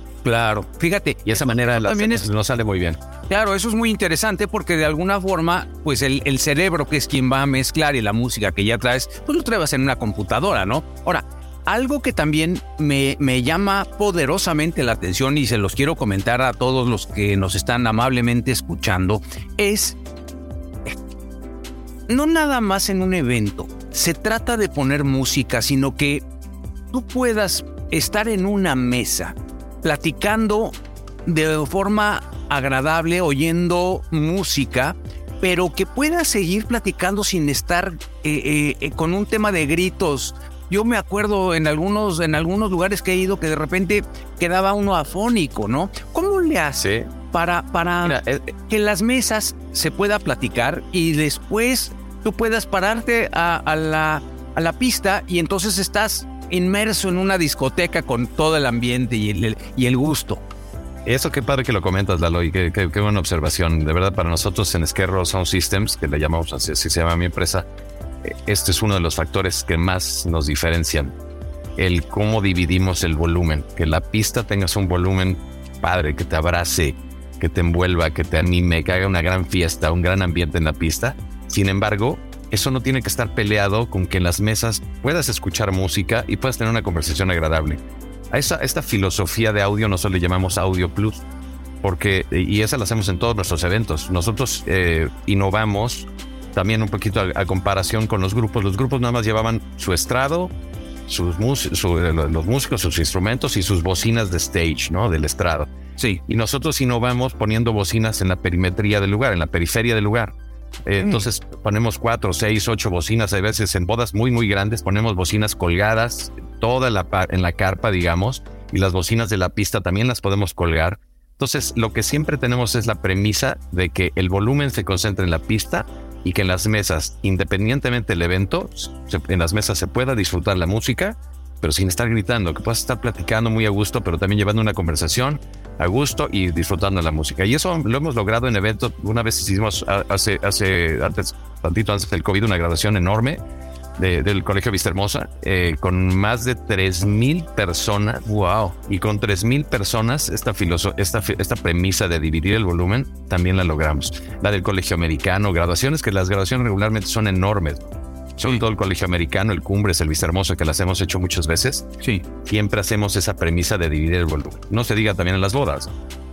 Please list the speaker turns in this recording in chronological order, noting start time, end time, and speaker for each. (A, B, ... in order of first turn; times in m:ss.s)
0:00.2-0:02.3 A
0:01.3-0:03.0 B
0:03.3-0:20.0 A
0:22.1-0:26.2 A
0:26.9-0:30.7 A
0:31.3-1:00.4 A
0:46.8-0:47.1 B
0:48.0-0:48.5 B
1:01.0-1:07.7 B
1:08.2-1:11.1 B
1:11.8-1:31.2 B
1:31.8-1:40.5 B
1:41.1-1:45.7 B
1:46.0-1:46.2 A
1:46.3-1:50.3 B
1:50.9-2:23.4 B
1:51.0-1:51.3 A
2:24.0-2:28.2 B
2:28.3-2:28.8 A
2:28.9-2:37.9 B
2:38.4-2:41.9 B
2:42.4-2:45.9 B